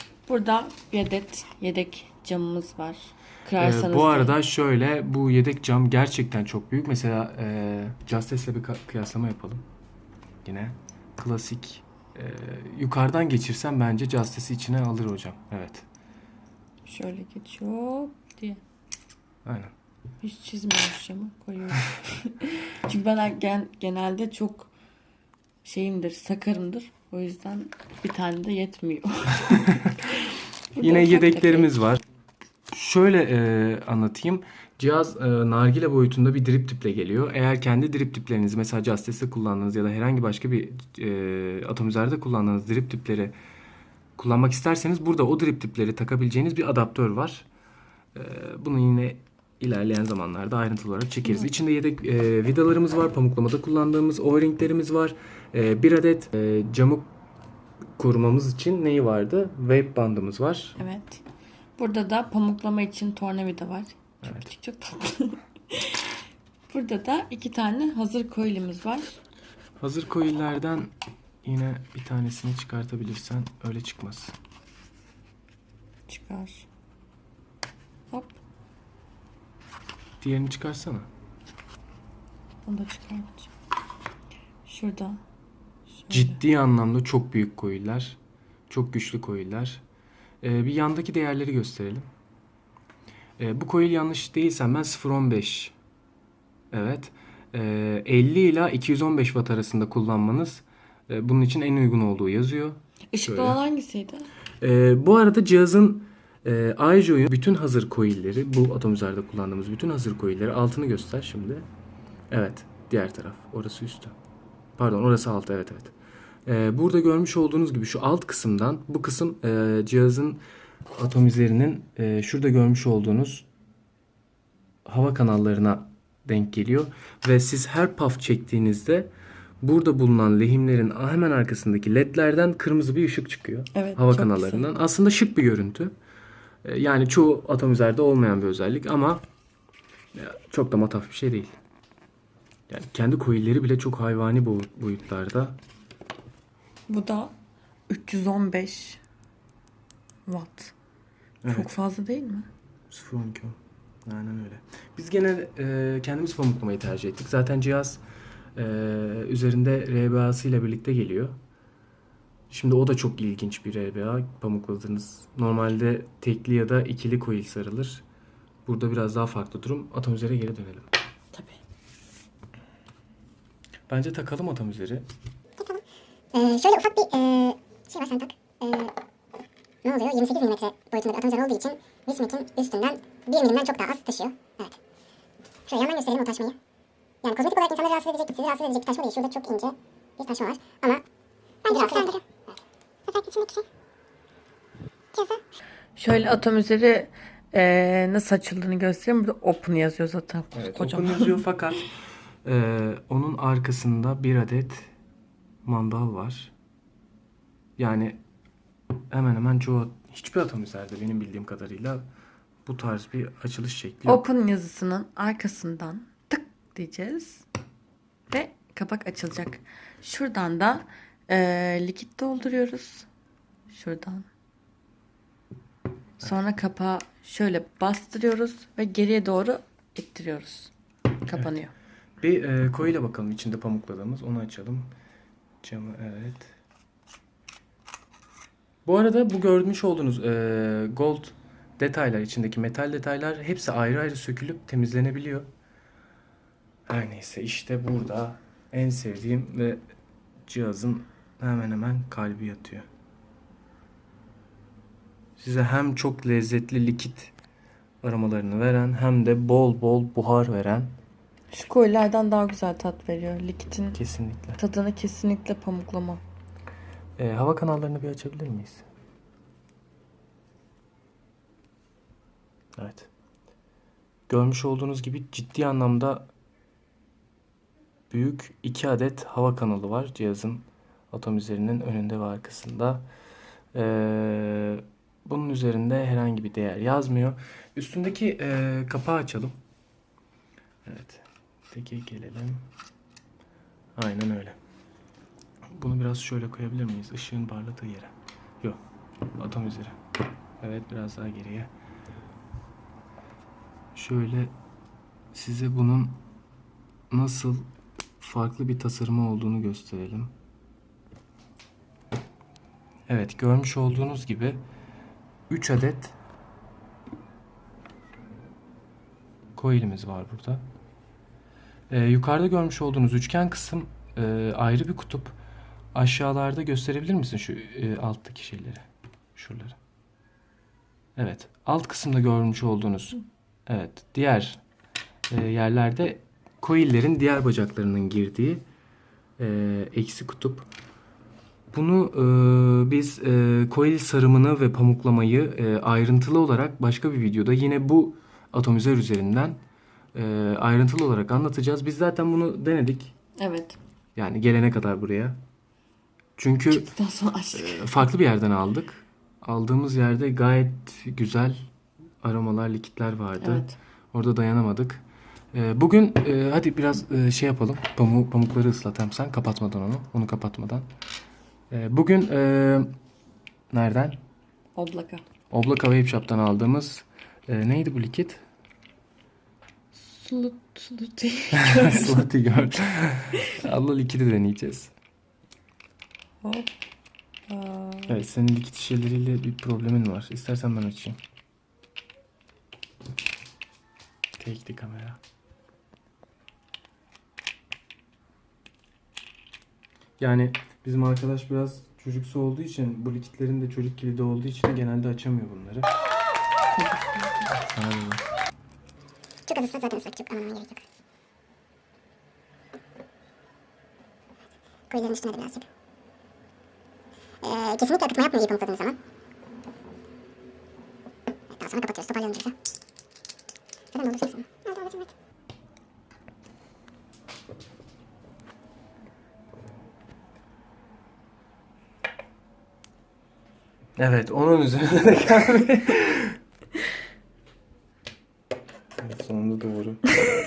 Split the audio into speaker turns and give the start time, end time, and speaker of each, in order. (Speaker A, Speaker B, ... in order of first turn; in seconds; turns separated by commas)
Speaker A: 0.3-4.4, Speaker B: 3.6-9.6, Speaker B: 10.4-15.8, Speaker A: 16.9-18.6, Speaker B: 19.4-19.7, Speaker A: 20.2-24.7, Speaker A: 25.6-31.7, Speaker B: 29.5-29.9, Speaker B: 30.8-32.0, Speaker B: 32.7-43.4, Speaker B: 44.2-47.5, Speaker B: 48.1-57.1, Speaker B: 58.0-60.8, Speaker A: 60.8-61.2, Speaker A: 61.8-66.1, Speaker B: 64.2-64.5, Speaker A: 66.7-69.2, Speaker B: 69.8-70.9, Speaker B: 71.4-74.3, Speaker A: 76.1-76.7, Speaker A: 78.1-78.4, Speaker B: 80.2-81.1, Speaker A: 82.7-83.5, Speaker A: 84.7-85.2, Speaker A: 85.9-86.4, Speaker B: 86.1-88.2, Speaker B: 88.7-89.8, Speaker B: 90.4-92.1, Speaker B: 93.4-95.8, Speaker B: 96.7-103.6, Speaker A: 103.1-104.3, Speaker B: 104.6-111.7, Speaker B: 112.3-114.2, Speaker B: 114.8-115.9, Speaker B: 116.5-123.5, Speaker B: 124.8-129.1, Speaker B: 129.6-135.9, Speaker A: 133.7-134.7, Speaker B: 136.6-139.2, Speaker B: 140.1-141.5, Speaker B: 142.7-145.6, Speaker A: 146.9-147.3, Speaker A: 147.9-149.0, Speaker A: 150.3-150.7, Speaker B: 151.4-151.7, Speaker A: 151.5-152.5, Speaker B: 152.9-158.0, Speaker B: 158.6-161.4, Speaker B: 162.5-168.0, Speaker B: 168.7-170.9, Speaker A: 171.3-171.6, Speaker B: 173.9-175.1, Speaker C: 176.3-178.9, Speaker C: 179.8-184.8, Speaker C: 185.7-186.6, Speaker C: 187.2-191.1, Speaker C: 191.6-192.2, Speaker A: 191.7-192.1, Speaker C: 193.1-193.7, Speaker C: 195.1-195.4, Speaker A: 196.0-201.4, Speaker B: 200.5-201.9, Speaker B: 202.4-204.9, Speaker B: 205.6-206.5, Speaker B: 207.8-208.2, Speaker B: 209.1-212.0, Speaker B: 212.7-214.3, Speaker A: 214.1-217.4, Speaker A: 218.3-223.1, Speaker A: 223.7-224.3, Speaker A: 226.2-230.7, Speaker A: 231.2-231.7, Speaker B: 232.2-234.9, Speaker B: 235.6-236.5, Speaker B: 238.8-245.5, Speaker B: 246.9-249.8, Speaker B: 250.4-252.9, Speaker B: 255.4-257.3, Speaker B: 258.0-261.0, Speaker A: 261.5-264.0, Speaker B: 263.9-264.6, Speaker A: 264.6-266.2, Speaker B: 267.2-268.9, Speaker B: 272.8-273.1, Speaker B: 274.3-276.3, Speaker B: 278.1-283.1, Speaker B: 283.7-289.6, Speaker B: 290.9-292.7, Speaker B: 294.0-294.6, Speaker B: 295.7-298.8, Speaker B: 299.4-300.0, Speaker B: 300.6-301.7, Speaker B: 303.9-304.5, Speaker B: 305.3-306.2, Speaker B: 307.1-307.7, Speaker B: 308.2-310.3, Speaker B: 313.1-314.6, Speaker B: 315.5-316.1, Speaker B: 319.6-320.6, Speaker B: 321.9-325.4, Speaker B: 325.9-329.8, Speaker B: 331.2-334.6, Speaker B: 335.3-338.6, Speaker B: 339.4-340.7, Speaker B: 341.7-349.6, Speaker B: 350.1-353.1, Speaker A: 353.4-353.8, Speaker B: 354.2-355.4, Speaker B: 356.4-356.9, Speaker A: 356.7-357.9, Speaker B: 357.5-361.6, Speaker B: 362.2-370.9, Speaker A: 363.4-363.8, Speaker B: 371.7-372.9, Speaker B: 373.7-374.2, Speaker A: 374.8-375.2, Speaker B: 375.5-378.4, Speaker A: 379.9-382.3, Speaker B: 381.5-384.9, Speaker A: 386.4-386.7, Speaker A: 387.5-388.1, Speaker B: 388.1-391.2, Speaker B: 394.4-395.2, Speaker B: 400.2-405.9, Speaker A: 406.8-407.6, Speaker B: 407.5-408.2, Speaker C: 409.5-410.8, Speaker C: 414.9-415.7, Speaker C: 417.4-419.0, Speaker C: 421.5-422.6, Speaker C: 423.9-425.1, Speaker B: 434.0-436.4, Speaker B: 439.0-440.0